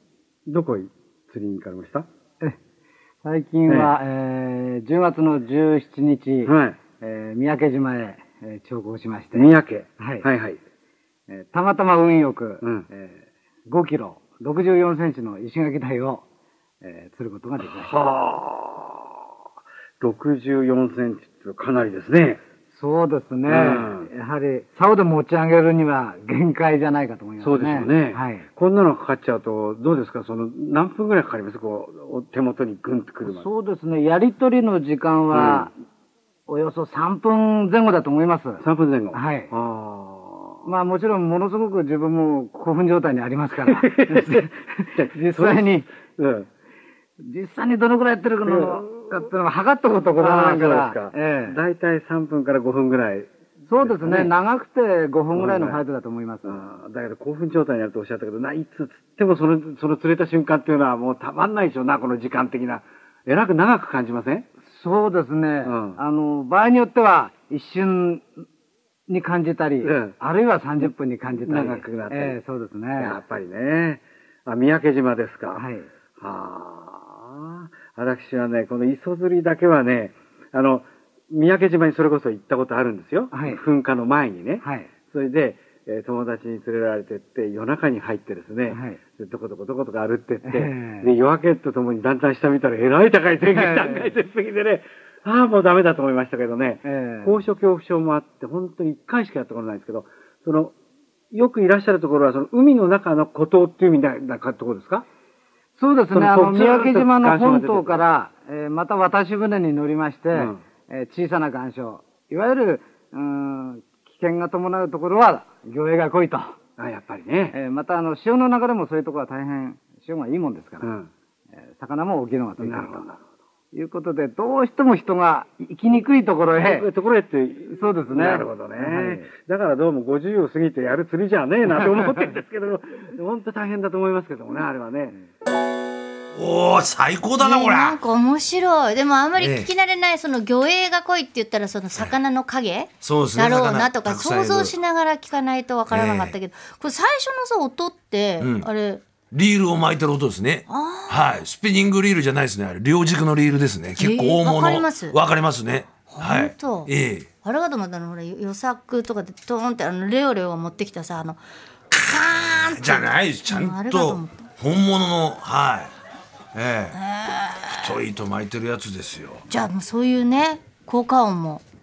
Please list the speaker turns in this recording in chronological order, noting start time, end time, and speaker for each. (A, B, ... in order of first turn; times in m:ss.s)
0:00.5-0:02.1 A
0:03.2-0:10.2 B
0:03.7-0:04.0 A
0:06.4-0:06.8 A
0:09.3-0:10.6 A
0:11.3-0:13.1 B
0:12.6-0:12.9 A
0:13.7-0:16.2 B
0:16.8-0:17.9 B
0:17.6-0:19.0 A
0:20.0-0:22.4 A
0:22.8-0:28.4 B
0:23.4-0:24.1 A
0:27.4-0:33.5 A
0:33.2-0:35.7 B
0:35.3-0:35.7 A
0:36.5-0:39.5 B
0:38.6-0:40.7 A
0:40.6-0:45.8 B
0:43.7-0:46.5 A
0:47.2-0:51.6 B
0:48.4-0:49.1 A
0:50.2-0:54.3 A
0:53.7-0:56.6 B
0:55.3-0:55.8 A
0:56.4-1:04.4 A
1:04.7-1:08.2 B
1:05.6-1:06.0 A
1:09.1-1:13.2 B
1:09.8-1:10.2 A
1:10.8-1:12.4 A
1:13.0-1:15.6 A
1:15.5-1:15.9 B
1:16.2-1:40.7 A
1:23.3-1:23.6 B
1:24.6-1:24.9 B
1:28.7-1:29.0 B
1:30.4-1:31.1 B
1:33.5-1:34.1 B
1:36.8-1:37.4 B
1:41.3-1:45.0 A
1:45.8-1:56.6 B
1:46.1-1:48.1 A
1:50.3-1:50.6 A
1:56.8-1:57.6 A
1:57.5-2:00.9 B
2:00.8-2:01.1 A
2:01.6-2:03.1 B
2:02.6-2:03.2 A
2:03.7-2:06.9 B
2:06.5-2:15.2 A
2:07.7-2:09.2 B
2:11.7-2:12.0 B
2:16.3-2:18.0 C
2:17.4-2:29.0 D
2:19.4-2:19.7 C
2:23.0-2:24.7 C
2:25.9-2:26.3 C
2:28.4-2:28.7 C
2:29.3-2:37.3 C
2:30.7-2:31.3 D
2:34.0-2:35.2 D
2:36.1-2:36.9 D
2:37.4-2:41.4 D
2:41.9-2:44.5 D
2:42.1-2:45.9 C
2:46.5-2:47.0 C
2:46.9-2:47.9 D
2:47.7-2:49.4 C
2:49.5-2:51.6 D